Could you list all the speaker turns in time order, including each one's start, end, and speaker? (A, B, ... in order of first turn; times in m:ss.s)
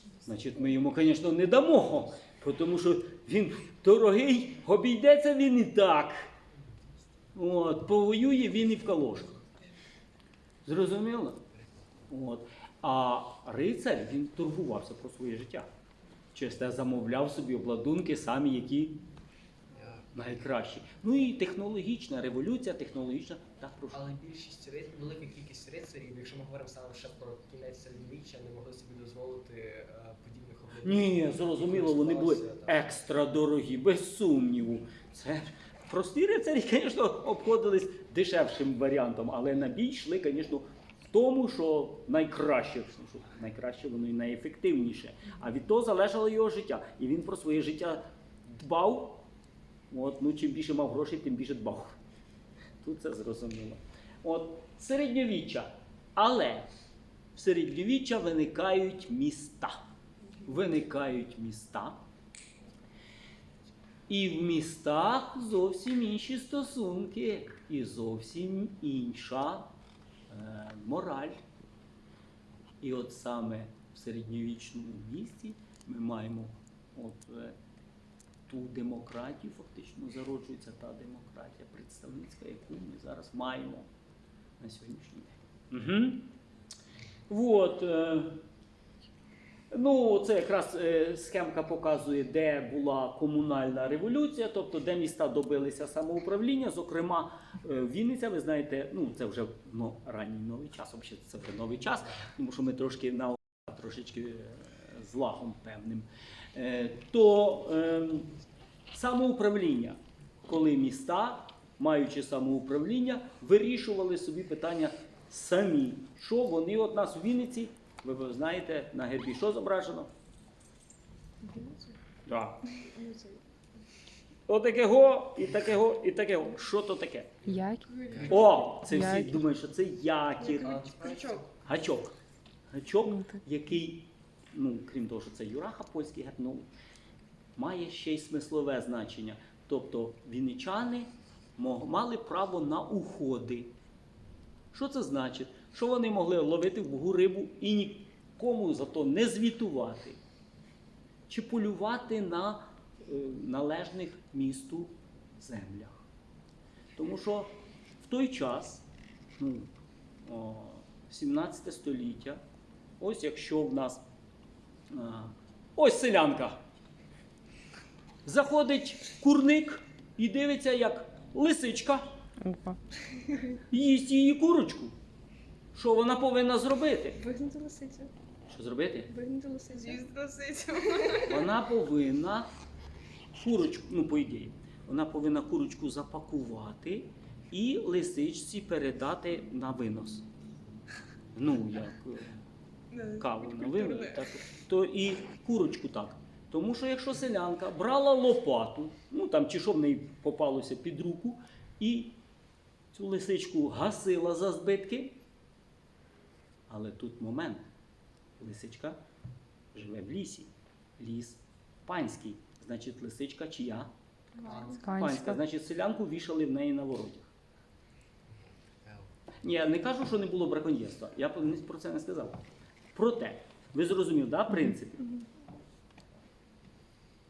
0:00.2-0:06.3 A
0:07.3-0:09.4 A
0:10.6-0:11.4 A
0:12.1-0:15.7 A
0:16.3-0:19.0 A
0:19.7-0:20.4 B
0:20.1-0:24.0 A
0:23.9-0:33.0 B
0:30.8-0:49.3 A
0:49.9-0:52.0 A
0:52.8-0:56.7 A
0:57.3-0:59.8 A
1:00.4-1:02.0 A
1:04.1-1:09.7 A
1:10.3-1:11.4 A
1:12.8-1:17.6 A
1:18.5-1:23.9 A
1:24.6-1:26.3 A
1:27.3-1:28.4 A
1:29.7-1:48.3 A
1:48.9-2:00.1 A
2:01.5-2:01.8 C
2:02.2-2:02.7 A
2:02.8-2:03.4 C
2:04.5-2:07.4 A
2:07.4-2:08.5 B
2:07.5-2:09.4 C
2:08.2-2:11.0 A
2:10.4-2:11.5 B
2:11.1-2:11.4 C
2:11.6-2:12.1 A
2:12.7-2:16.7 A
2:17.6-2:23.7 A
2:24.7-2:30.2 A
2:31.3-2:36.0 A
2:37.0-2:38.8 A
2:39.4-2:42.4 A
2:43.0-2:44.0 A
2:44.9-2:46.6 A
2:48.2-2:52.1 A
2:52.4-2:53.4 C
2:53.5-2:54.9 A
2:55.7-2:57.2 A
2:57.2-2:58.1 C
2:58.5-2:59.1 A
2:59.1-3:01.3 C
3:01.1-3:02.5 A
3:03.4-3:10.3 A
3:11.3-3:12.3 A
3:12.9-3:14.1 B
3:13.0-3:22.2 A
3:22.9-3:25.2 A
3:26.7-3:27.6 A
3:28.4-3:29.0 A
3:29.7-3:33.9 A
3:34.4-3:35.4 C
3:34.5-3:34.8 B
3:34.7-3:37.3 A
3:39.4-3:42.4 A
3:42.9-3:45.2 A